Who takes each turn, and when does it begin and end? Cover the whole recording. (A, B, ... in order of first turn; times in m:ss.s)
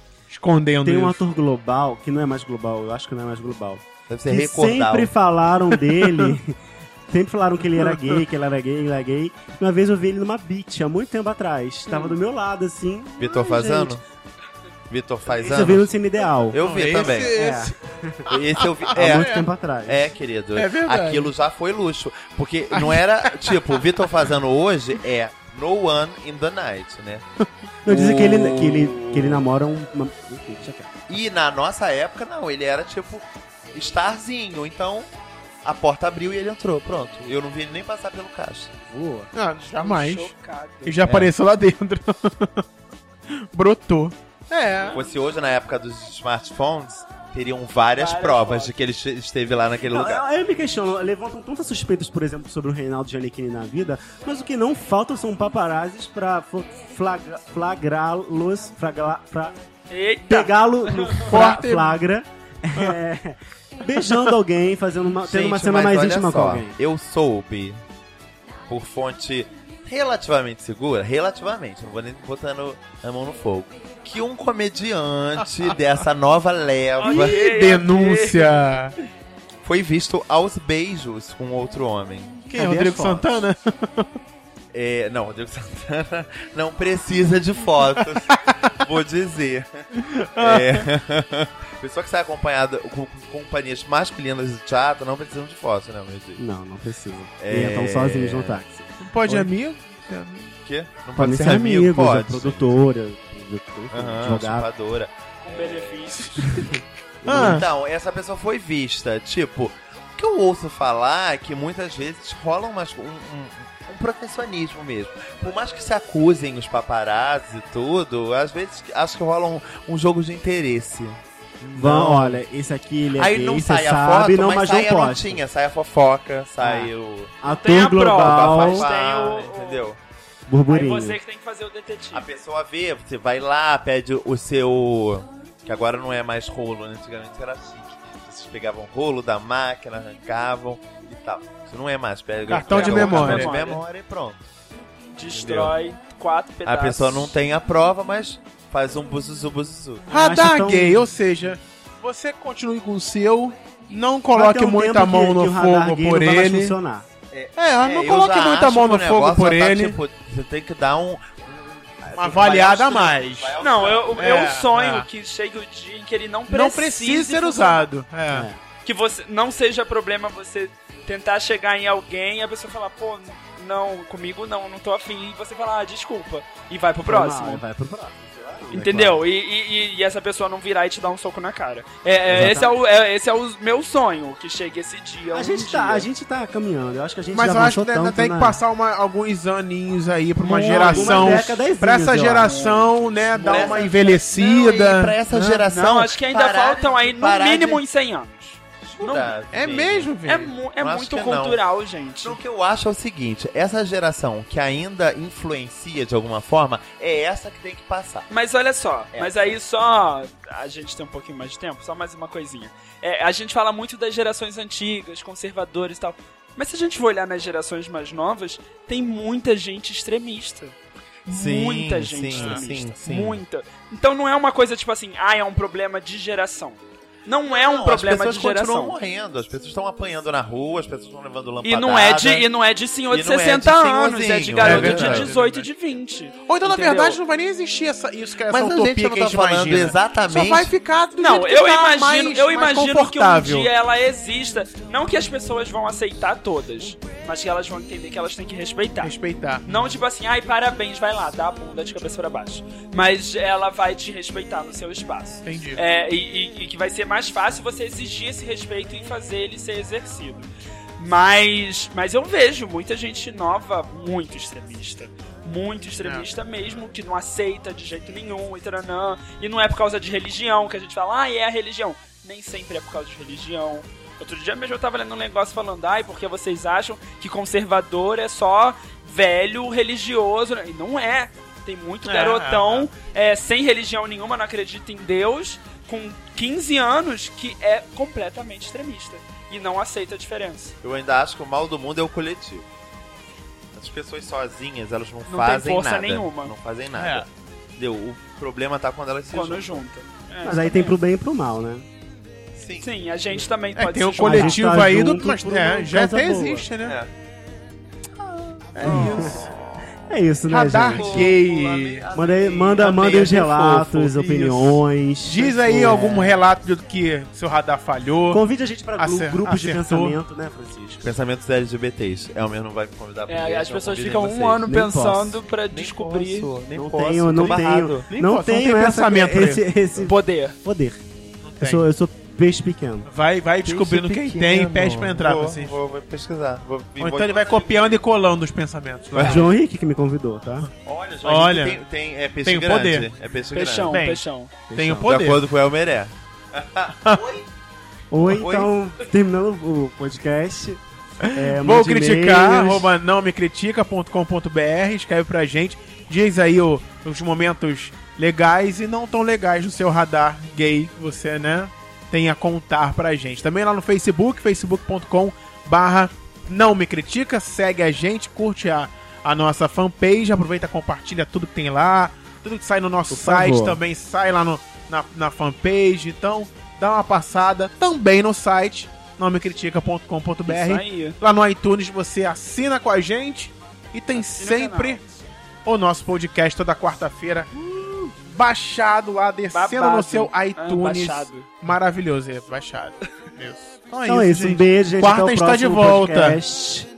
0:00.3-0:01.2 A
0:00.8-0:06.6 B
0:04.1-0:05.1 C
0:05.9-0:06.4 A
0:07.1-0:14.0 B
0:07.8-0:08.2 A
0:13.2-0:14.0 C
0:14.9-0:15.9 C
0:15.3-0:16.6 B
0:16.5-0:17.4 C
0:16.6-0:17.7 A
0:17.2-0:18.3 B
0:18.3-0:19.3 C
0:18.6-0:19.5 A
0:18.9-0:20.1 B
0:19.8-0:27.2 C
0:20.6-0:21.3 A
0:22.7-0:24.0 A
0:27.8-0:30.9 B
0:27.9-0:29.4 C
0:31.1-0:35.1 C
0:35.6-0:38.7 C
0:38.8-0:39.3 B
0:39.4-0:40.3 A
0:39.8-0:41.0 D
0:40.8-0:42.7 A
0:41.0-0:41.3 C
0:43.3-0:45.0 A
0:44.8-0:45.1 D
0:44.9-0:50.2 C
0:48.0-0:48.7 D
0:49.9-0:59.6 B
0:59.9-1:01.2 D
1:00.3-1:06.8 B
1:01.2-1:02.0 A
1:05.2-1:07.8 C
1:08.7-1:17.4 C
1:15.4-1:15.7 A
1:17.0-1:18.6 D
1:17.0-1:19.0 A
1:19.6-1:22.4 C
1:22.5-1:24.1 A
1:22.6-1:23.3 B
1:24.7-1:36.4 C
1:30.0-1:30.9 A
1:36.4-1:39.5 B
1:37.4-1:38.6 C
1:39.0-1:40.5 A
1:40.6-1:42.7 C
1:41.2-1:44.7 B
1:43.9-1:46.3 C
1:45.4-1:46.6 D
1:46.2-1:46.5 A
1:46.5-1:47.6 B
1:47.2-2:02.4 C
1:47.3-1:47.6 A
2:01.8-2:05.4 B
2:03.1-2:07.3 C
2:06.6-2:06.9 B
2:07.4-2:08.8 B
2:07.5-2:09.9 D
2:08.1-2:10.0 C
2:10.5-2:11.2 B
2:10.7-2:12.3 D
2:12.1-2:24.4 C
2:22.5-2:23.6 A
2:22.7-2:23.8 D
2:25.1-2:27.4 D
2:25.3-2:25.8 C
2:26.6-2:30.1 C
2:30.1-2:36.8 A
2:30.1-2:31.1 B
2:34.3-2:37.0 B
2:37.3-2:44.2 C
2:37.6-2:40.0 A
2:42.2-2:43.6 A
2:43.6-2:47.9 D
2:44.1-2:45.1 A
2:46.5-2:48.5 A
2:48.3-2:48.6 B
2:48.8-2:57.6 D
2:57.0-2:59.2 B
2:58.7-3:06.1 D
3:02.3-3:02.8 B
3:05.3-3:08.6 B
3:07.3-3:15.7 A
3:10.4-3:11.5 D
3:10.6-3:12.8 B
3:12.4-3:14.2 D
3:13.4-3:17.8 C
3:15.7-3:19.4 D
3:18.8-3:20.1 C
3:19.5-3:20.5 A
3:20.2-3:22.4 D
3:20.7-3:21.6 C
3:22.2-3:28.3 C
3:28.3-3:49.0 D
3:29.1-3:29.6 C
3:41.3-3:43.4 C
3:42.3-3:42.6 A
3:47.5-3:52.5 C
3:51.6-3:57.2 D
3:53.1-3:55.3 C
3:54.6-3:55.7 A
3:56.5-4:03.7 A
3:58.5-4:00.7 C
4:01.2-4:09.1 D
4:09.0-4:09.6 A
4:09.7-4:50.8 D
4:15.4-4:15.8 A
4:26.0-4:26.3 A
4:42.1-4:42.9 A
4:50.8-4:52.7 C
4:53.7-4:59.8 C
4:55.3-4:56.5 D
4:57.0-4:57.3 A
4:59.3-5:01.0 D
5:00.4-5:01.8 B
5:02.5-5:02.9 C
5:02.8-5:04.7 D
5:03.8-5:07.0 A
5:04.2-5:06.7 B
5:06.8-5:07.1 C
5:08.2-5:09.6 C
5:08.8-5:09.6 A
5:08.8-5:09.4 B
5:10.1-5:11.3 B
5:10.5-5:12.0 A
5:10.9-5:14.5 C
5:12.1-5:16.4 B
5:14.4-5:18.4 A
5:18.3-5:21.1 B
5:19.0-5:20.2 A
5:21.0-5:24.7 C
5:23.3-5:26.5 D
5:24.7-5:25.4 B
5:25.7-5:28.1 C
5:26.7-5:31.0 B
5:28.1-5:29.6 A
5:30.0-5:30.6 D
5:31.4-5:31.8 A
5:31.6-5:33.1 B
5:33.1-5:35.8 A
5:33.6-5:38.0 C
5:37.0-5:39.5 A
5:39.1-5:39.5 C
5:39.2-5:40.7 B
5:40.8-5:44.0 C
5:41.2-5:41.8 A
5:42.4-5:43.1 A
5:43.5-5:44.5 D
5:43.9-5:44.2 A
5:44.7-5:45.1 B
5:44.8-5:45.4 A
5:45.1-5:47.5 C
5:48.1-5:52.9 B
5:48.3-5:48.7 C
5:51.2-6:25.0 A
6:13.1-6:13.8 B
6:20.5-6:21.2 D
6:24.2-6:25.0 D
6:25.6-6:27.5 A
6:27.6-6:28.1 B
6:28.2-6:36.4 A
6:29.5-6:31.5 D
6:34.0-6:36.9 B